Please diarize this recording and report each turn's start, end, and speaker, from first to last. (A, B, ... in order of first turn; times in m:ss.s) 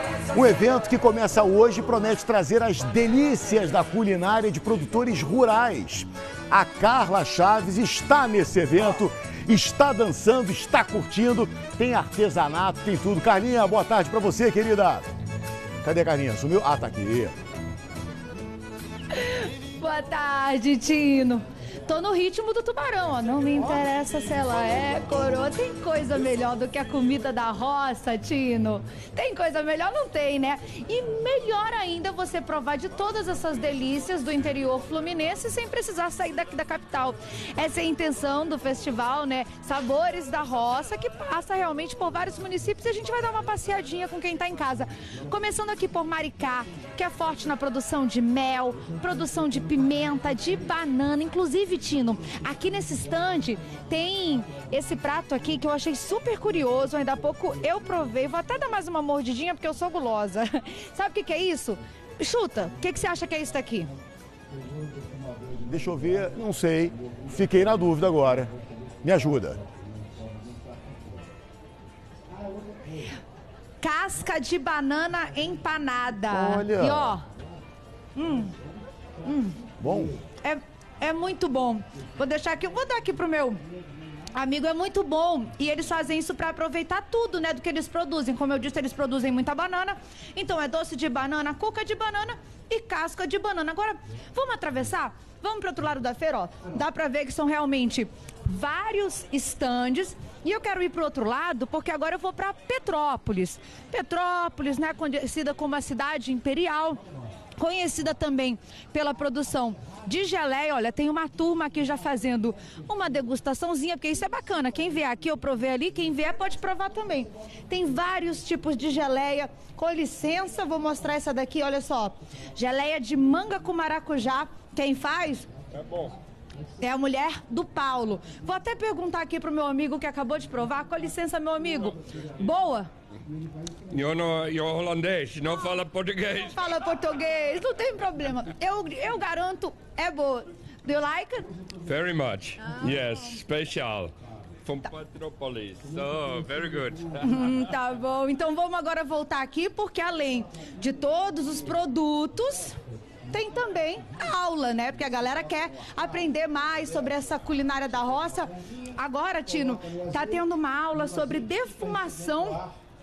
0:00.3-0:15.0 A
0:15.8-0:17.3 A
0:19.1-1:03.9 B
1:05.6-1:09.6 A
1:13.8-1:17.2 B
1:16.3-1:17.2 A
1:18.1-1:18.5 B
1:19.2-1:19.6 B
1:19.8-1:20.2 A
1:20.4-1:23.6 B
1:24.3-1:47.0 B
1:47.6-2:05.5 B
2:05.7-2:06.2 C
2:06.8-2:12.9 B
2:13.9-2:16.6 C
2:16.4-2:21.5 B
2:21.8-2:24.1 C
2:24.6-2:27.6 C
2:27.2-2:32.8 B
2:33.3-2:42.6 B